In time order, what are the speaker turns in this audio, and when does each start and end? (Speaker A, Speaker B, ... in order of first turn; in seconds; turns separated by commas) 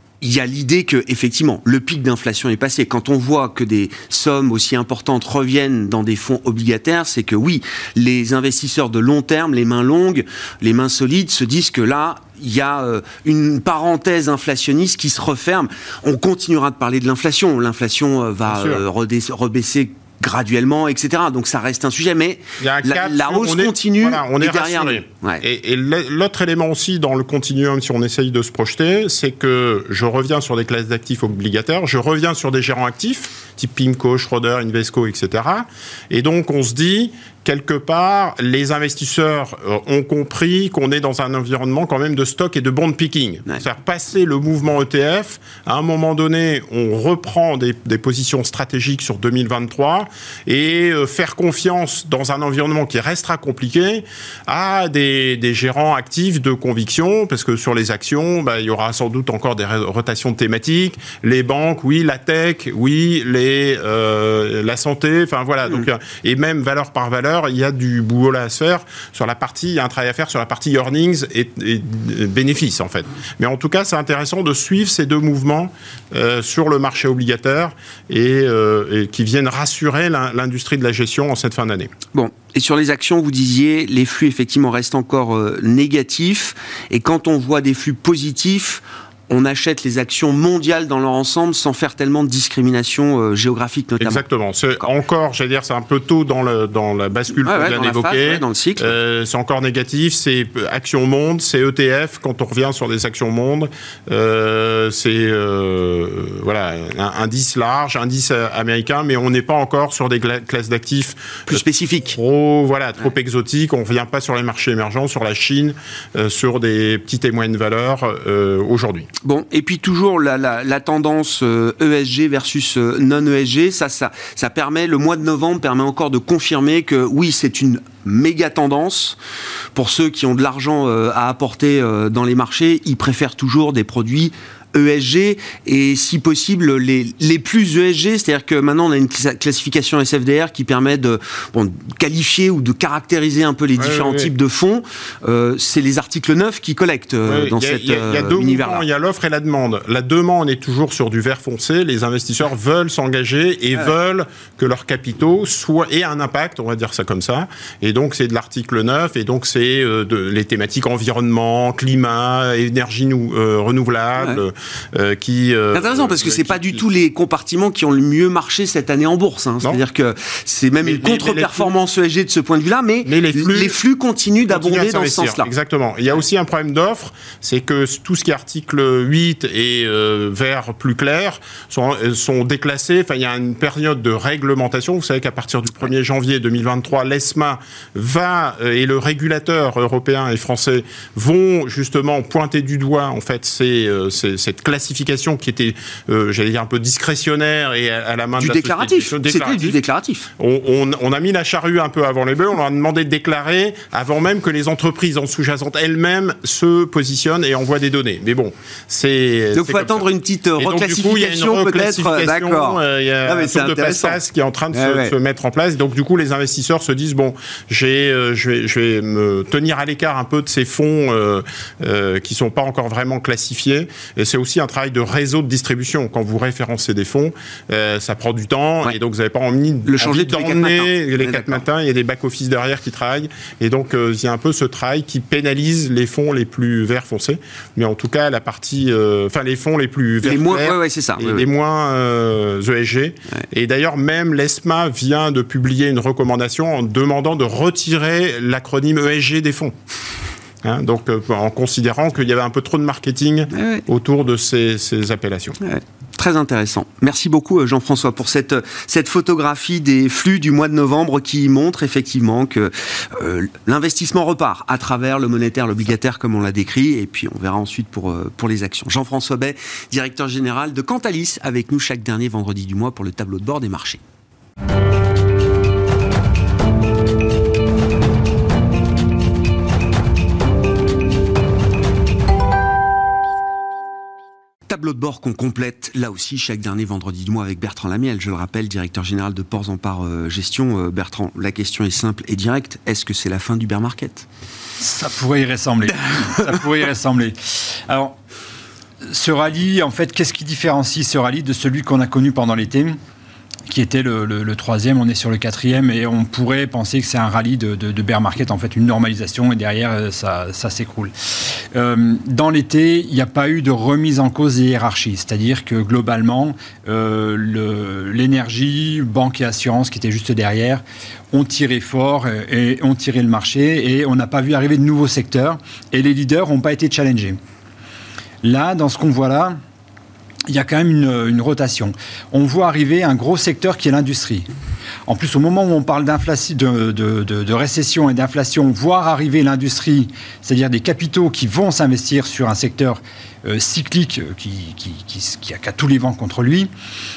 Speaker A: 0.2-25.4, Speaker B: 18.5-18.8, Speaker B: 22.6-81.9, Speaker A: 82.1-94.2, Speaker B: 94.0-111.6, Speaker A: 97.4-99.0, Speaker A: 111.5-112.2, Speaker B: 112.1-119.1, Speaker A: 119.2-129.2, Speaker A: 129.8-148.8, Speaker B: 143.8-144.3, Speaker B: 147.3-166.8, Speaker A: 164.2-164.4, Speaker A: 165.7-175.5, Speaker B: 170.8-171.7, Speaker B: 173.1-173.8, Speaker B: 174.5-199.8, Speaker A: 198.4-200.3, Speaker B: 200.4-210.1, Speaker A: 209.5-214.2, Speaker B: 210.6-249.7, Speaker A: 214.7-215.1, Speaker A: 229.9-231.6, Speaker A: 240.2-241.5, Speaker B: 250.6-255.6, Speaker A: 253.5-253.8, Speaker A: 255.6-274.0, Speaker A: 284.7-294.3, Speaker C: 294.8-298.2, Speaker A: 296.1-296.5, Speaker C: 299.1-303.0, Speaker C: 303.7-327.4, Speaker C: 328.4-329.6, Speaker C: 330.5-334.5, Speaker C: 335.1-346.7